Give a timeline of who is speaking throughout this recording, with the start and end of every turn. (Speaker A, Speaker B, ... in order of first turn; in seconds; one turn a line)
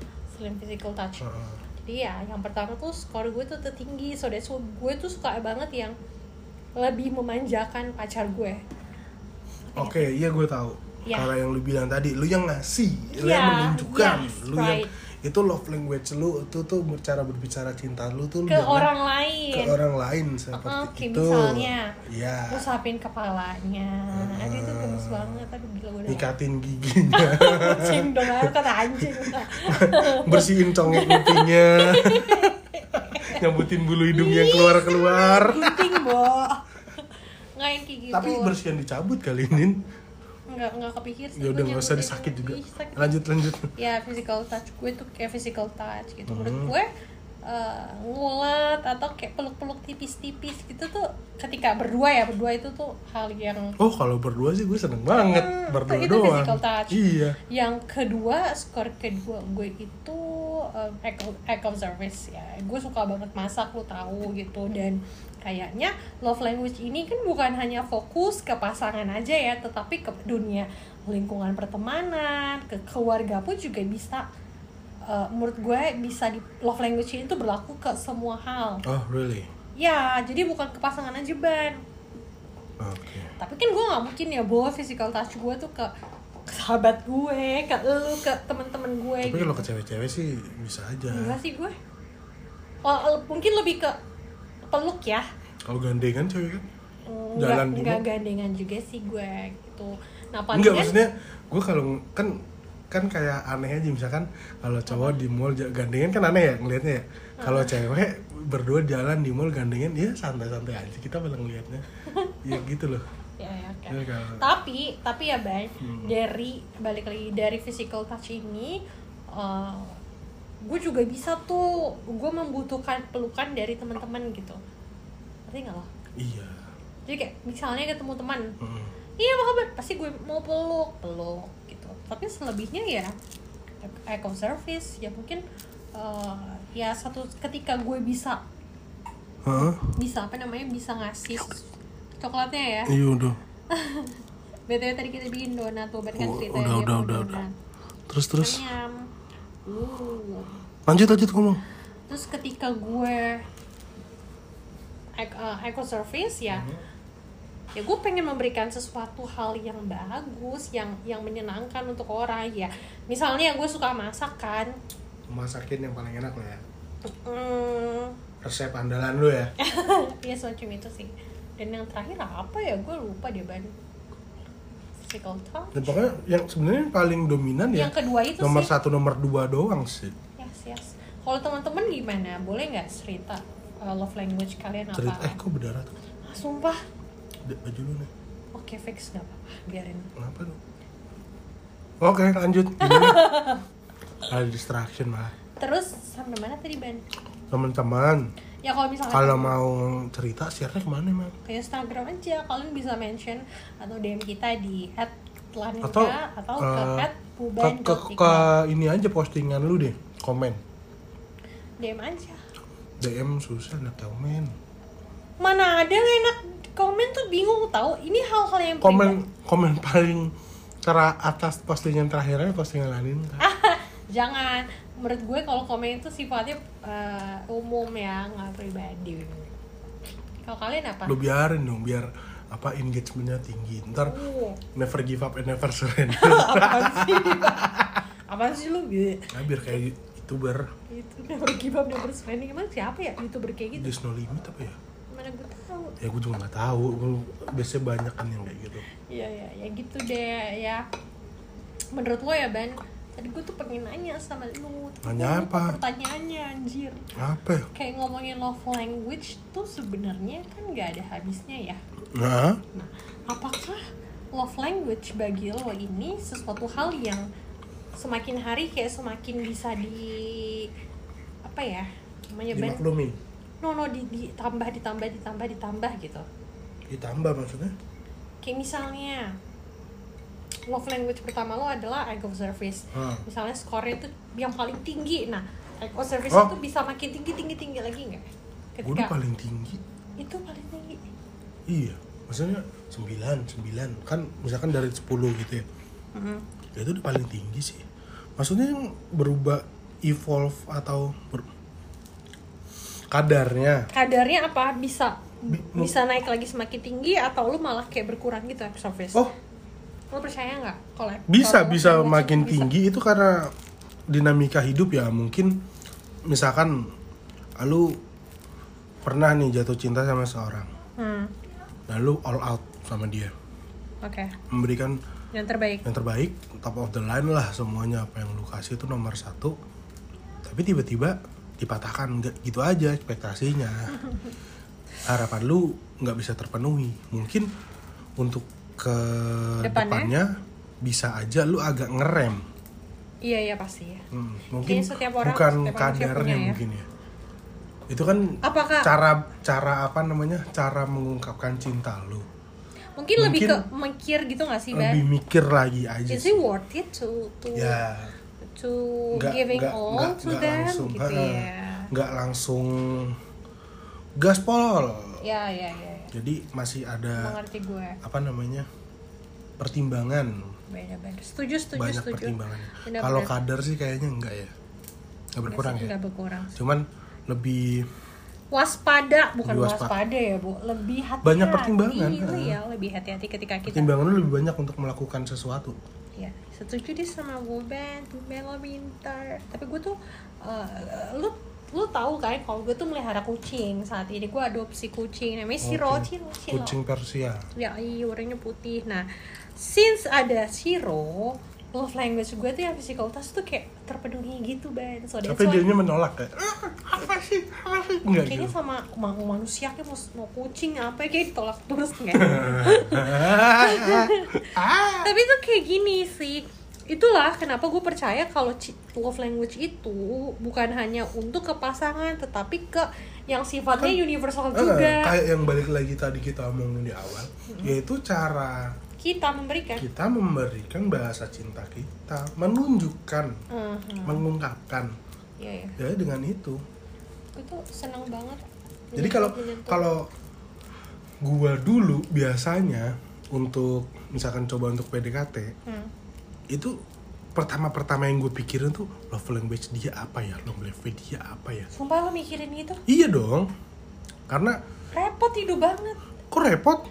Speaker A: 0.3-1.3
Speaker B: 1.2-1.6
Speaker A: 1.8-6.0
Speaker A: 6.8-8.6
Speaker A: 9.7-10.1
Speaker B: 9.8-18.9
Speaker A: 11.1-11.3
Speaker A: 13.1-14.9
Speaker A: 18.5-19.8
Speaker B: 19.5-22.7
Speaker A: 20.5-22.0
Speaker A: 22.5-26.3
Speaker B: 24.1-25.4
Speaker B: 26.1-36.1
Speaker A: 27.1-33.5
Speaker A: 34.1-38.5
Speaker B: 38.1-39.8
Speaker A: 40.5-43.2
Speaker B: 41.4-43.7
Speaker A: 43.8-46.9
Speaker B: 46.3-46.7
Speaker A: 47.5-53.8
Speaker B: 53.8-57.4
Speaker A: 55.1-74.3
Speaker A: 75.1-78.8
Speaker B: 78.8-79.5
Speaker A: 79.8-81.8
Speaker B: 82.8-83.3
Speaker A: 83.4-85.9
Speaker A: 86.5-89.7
Speaker B: 89.2-91.4
Speaker A: 91.1-91.8
Speaker A: 92.8-94.0
Speaker A: 94.7-95.3
Speaker B: 95.7-96.7
Speaker A: 97.1-101.0
Speaker B: 97.4-98.0
Speaker B: 100.5-102.4
Speaker B: 102.9-111.8
Speaker A: 104.9-105.2
Speaker A: 107.4-107.8
Speaker A: 112.1-112.6
Speaker B: 112.4-113.0
Speaker A: 113.4-120.0
Speaker B: 113.9-114.4
Speaker B: 115.8-116.1
Speaker A: 120.6-124.6
Speaker A: 125.5-125.9
Speaker B: 126.2-126.6
Speaker A: 127.1-128.6
Speaker B: 128.6-128.9
Speaker A: 129.2-133.2
Speaker A: 133.8-135.4
Speaker A: 135.9-138.4
Speaker B: 139.4-139.9
Speaker A: 139.5-141.6
Speaker A: 142.2-143.0
Speaker B: 142.9-143.4
Speaker A: 143.7-147.5
Speaker B: 146.2-147.4
Speaker B: 148.1-148.7
Speaker A: 148.4-149.1
Speaker A: 149.7-150.5
Speaker B: 150.9-151.6
Speaker A: 152.1-153.4
Speaker A: 155.2-156.7
Speaker B: 156.5-156.8
Speaker A: 157.8-164.8
Speaker B: 165.3-166.6
Speaker A: 167.0-168.2
Speaker B: 168.4-169.5
Speaker A: 169.6-173.7
Speaker A: 175.1-176.0
Speaker B: 175.8-180.2
Speaker A: 177.7-178.7
Speaker A: 180.4-185.4
Speaker B: 184.9-185.9
Speaker A: 186.2-186.8
Speaker B: 187.5-188.1
Speaker A: 188.6-190.1
Speaker B: 190.2-190.6
Speaker B: 192.0-193.3
Speaker A: 192.8-193.6
Speaker B: 194.3-195.3
Speaker A: 195.6-197.0
Speaker B: 197.5-198.3
Speaker A: 198.6-199.6
Speaker B: 199.1-201.3
Speaker A: 201.5-208.5
Speaker B: 205.8-207.1
Speaker B: 207.6-210.6
Speaker A: 211.8-212.4
Speaker B: 213.0-214.5
Speaker A: 215.4-219.2
Speaker B: 218.8-220.3
Speaker B: 220.8-223.4
Speaker A: 223.4-229.5
Speaker A: 230.4-231.2
Speaker B: 231.1-234.2
Speaker A: 234.0-234.6
Speaker B: 234.7-238.0
Speaker A: 236.1-239.8
Speaker B: 239.3-240.7
Speaker A: 240.9-243.9
Speaker B: 243.8-244.8
Speaker A: 245.1-246.0
Speaker B: 246.0-248.8
Speaker A: 249.1-250.8
Speaker A: 251.9-257.1
Speaker B: 255.0-255.8
Speaker B: 257.2-257.7
Speaker A: 257.7-261.8
Speaker B: 262.1-262.6
Speaker A: 262.7-267.3
Speaker A: 268.0-270.7
Speaker A: 271.5-272.8
Speaker B: 272.5-273.2
Speaker A: 273.6-276.3
Speaker B: 276.9-277.7
Speaker A: 278.4-279.4
Speaker A: 280.7-289.1
Speaker B: 282.9-283.2
Speaker B: 288.8-289.8
Speaker A: 290.2-291.0
Speaker B: 291.7-295.6
Speaker A: 296.1-296.4
Speaker B: 296.8-297.9
Speaker B: 298.4-301.5
Speaker B: 303.1-303.9
Speaker A: 303.9-309.3
Speaker B: 305.5-305.9
Speaker A: 310.1-312.7
Speaker B: 311.3-313.5
Speaker B: 314.1-315.6
Speaker B: 316.3-316.9
Speaker B: 317.6-318.0
Speaker B: 319.0-320.7
Speaker A: 321.0-321.3
Speaker B: 321.9-323.3
Speaker A: 324.0-324.4
Speaker B: 324.5-325.0
Speaker A: 325.3-325.9
Speaker B: 325.8-329.6
Speaker B: 330.4-334.0
Speaker A: 334.1-334.3
Speaker B: 335.1-337.5
Speaker B: 338.2-342.4
Speaker A: 339.6-340.1
Speaker A: 343.2-344.0
Speaker B: 344.1-346.9
Speaker A: 344.6-346.6
Speaker B: 347.9-352.3
Speaker A: 348.4-348.9
Speaker A: 353.0-355.1
Speaker B: 353.2-353.6
Speaker B: 354.7-356.4
Speaker A: 356.1-357.8
Speaker B: 357.6-358.1
Speaker A: 358.4-361.9
Speaker B: 359.1-363.2
Speaker B: 364.2-365.2
Speaker A: 365.2-366.1
Speaker B: 366.1-367.4
Speaker A: 367.2-368.0
Speaker B: 368.0-368.7
Speaker B: 369.6-370.5
Speaker A: 370.7-373.3
Speaker B: 371.8-374.5
Speaker B: 375.4-375.9
Speaker A: 375.5-376.5
Speaker B: 376.5-377.9
Speaker A: 378.5-383.9
Speaker B: 379.4-379.9
Speaker B: 381.2-382.6
Speaker B: 383.7-385.8
Speaker A: 386.2-396.8
Speaker B: 395.6-397.4
Speaker A: 397.6-405.7
Speaker B: 405.3-408.5
Speaker A: 408.2-414.5
Speaker B: 412.1-415.1
Speaker A: 415.0-425.1
Speaker B: 423.8-428.7
Speaker A: 427.5-427.8
Speaker A: 429.0-429.9
Speaker B: 429.8-433.4
Speaker A: 433.5-434.2
Speaker B: 434.1-434.9
Speaker A: 435.4-435.8
Speaker B: 435.8-436.6
Speaker A: 437.4-439.9
Speaker B: 438.9-440.1
Speaker B: 441.2-445.5
Speaker B: 447.4-451.7
Speaker A: 451.7-452.8
Speaker B: 452.9-453.5
Speaker B: 454.3-454.6
Speaker A: 454.9-456.0
Speaker B: 456.3-456.8